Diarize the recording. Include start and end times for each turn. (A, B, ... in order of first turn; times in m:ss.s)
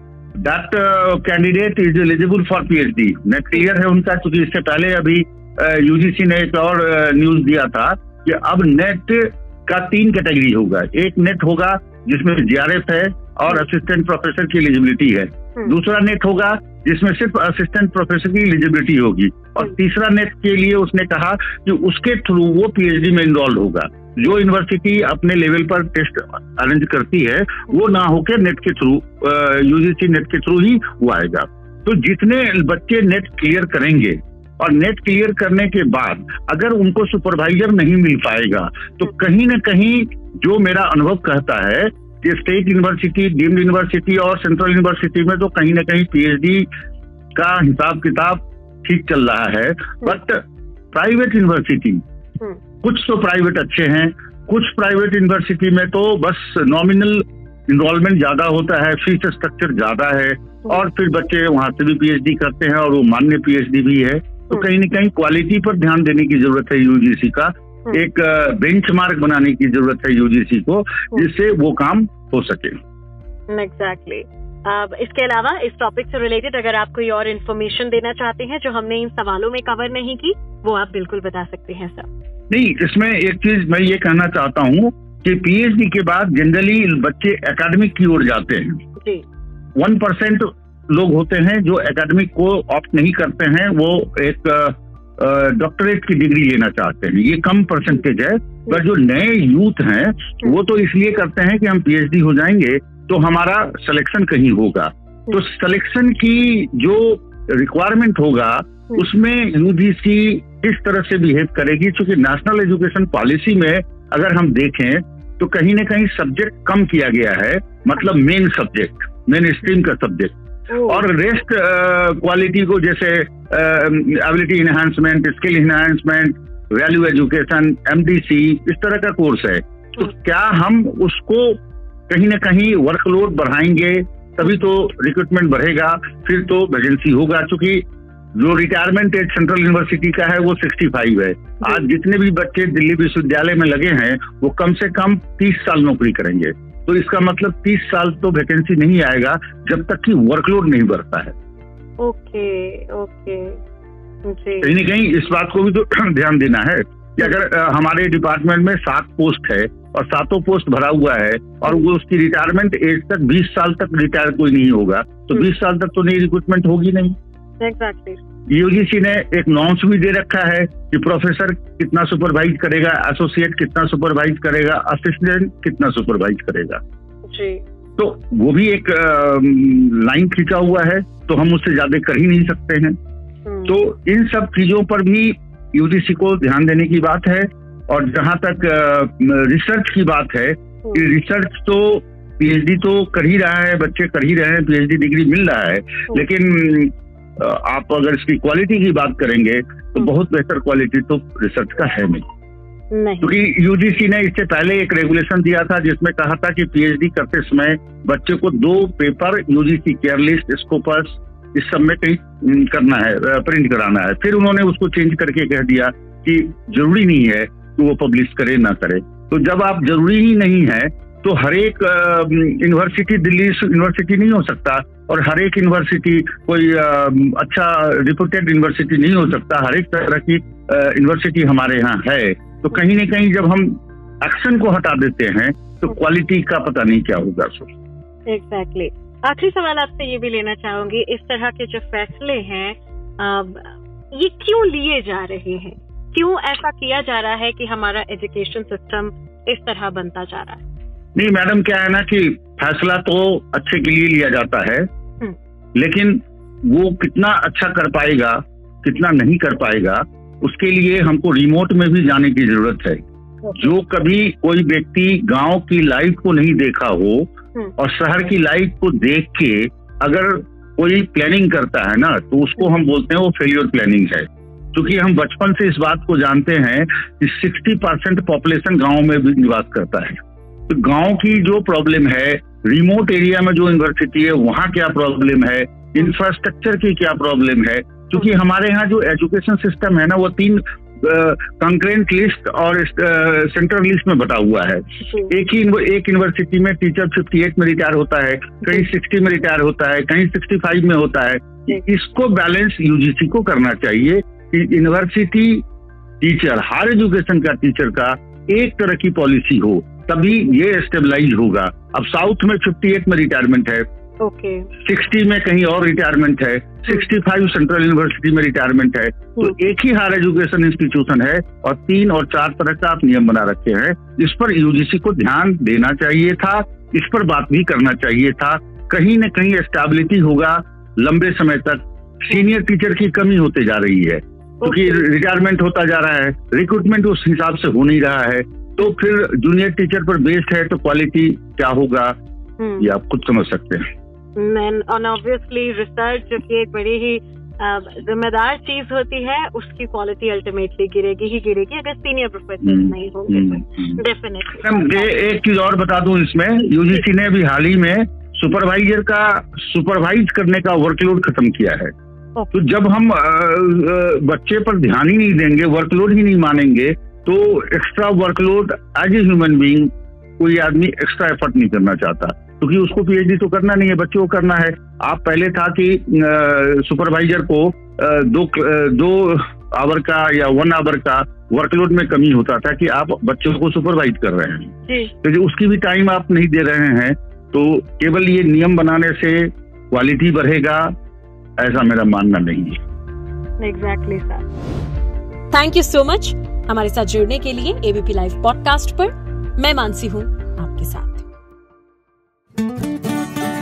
0:00.4-0:46.7 A
0:47.4-0:52.0 A
0:52.8-1:12.8 A
1:13.5-1:22.1 B
1:22.5-1:28.8 A
1:29.0-1:29.2 B
1:29.8-2:17.8 A
2:18.4-2:31.3 A
2:32.0-2:33.6 B
2:34.2-2:34.7 B
2:34.6-2:47.2 A
2:47.6-2:48.2 B
2:48.5-2:56.8 A
2:57.3-2:57.6 B
2:58.0-3:03.0 A
3:03.5-3:03.8 B
3:03.7-3:22.2 A
3:22.9-3:23.4 B
3:23.2-3:57.7 A
3:58.3-4:10.6 B
4:11.2-4:14.9 A
4:15.8-4:23.0 A
4:23.5-5:05.6 A
5:06.2-5:13.8 A
5:14.2-5:14.7 B
5:14.8-5:42.2 A
5:34.6-5:35.0 B
5:42.6-5:42.9 B
5:42.8-5:43.8 A
5:44.4-5:55.1 B
5:52.6-5:54.0 A
5:54.6-6:01.9 A
6:02.4-6:02.6 B
6:02.5-6:30.9 A
6:31.6-6:32.8 A
6:33.6-6:34.4 B
6:35.5-6:41.3 C